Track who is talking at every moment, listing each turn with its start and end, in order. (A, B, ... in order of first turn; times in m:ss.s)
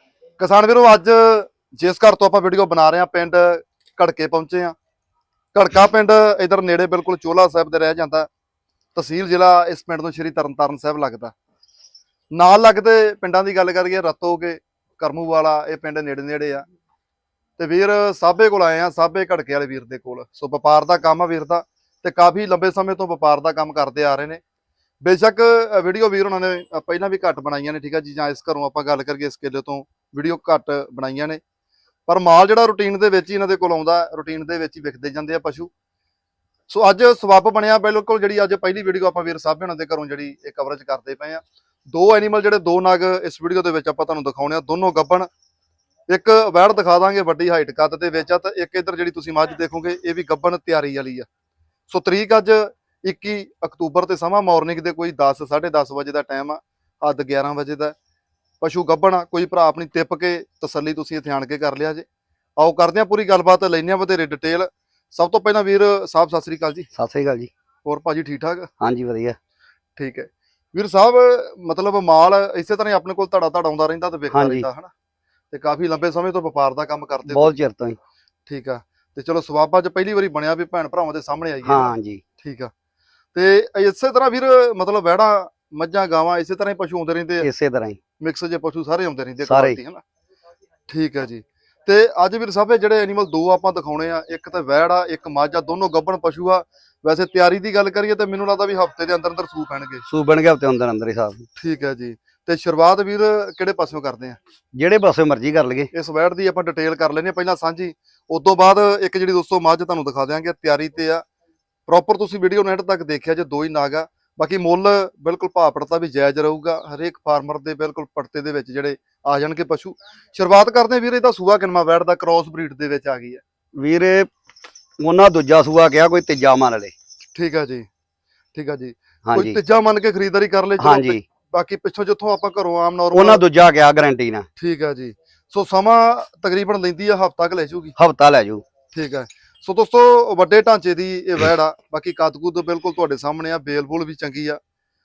0:00.4-0:04.7 A
0:05.5-0:08.3 A
0:08.9-0:11.3 A
0:12.3-0:16.6 A
0:17.6-0:24.4 A
0:25.0-0:31.4 A
0:32.1-0:35.7 A
0:36.7-0:45.3 A
0:46.1-0:51.2 A
0:51.9-0:57.9 A
0:58.6-1:02.0 A
1:02.6-1:06.9 A
1:06.9-1:07.5 B
1:07.8-1:08.7 A
1:08.8-1:09.4 B
1:10.0-1:14.9 A
1:14.3-1:14.6 B
1:15.5-1:17.6 A
1:17.3-1:18.0 B
1:18.5-1:22.7 A
1:21.6-1:22.2 B
1:23.3-1:27.5 A
1:27.4-1:28.0 B
1:28.2-1:30.0 A
1:29.4-1:29.8 B
1:30.9-1:40.0 A
1:40.1-1:41.4 B
1:41.6-1:44.4 A
1:44.7-1:45.9 B
1:45.9-1:51.2 A
1:51.9-2:03.4 A
2:03.8-2:04.3 B
2:05.0-2:06.9 B
2:07.3-2:07.9 A
2:08.5-2:13.4 A
2:09.2-2:09.6 B
2:10.8-2:11.2 B
2:13.1-2:14.4 B
2:14.6-2:17.9 A
2:18.0-2:18.6 B
2:18.9-2:24.6 A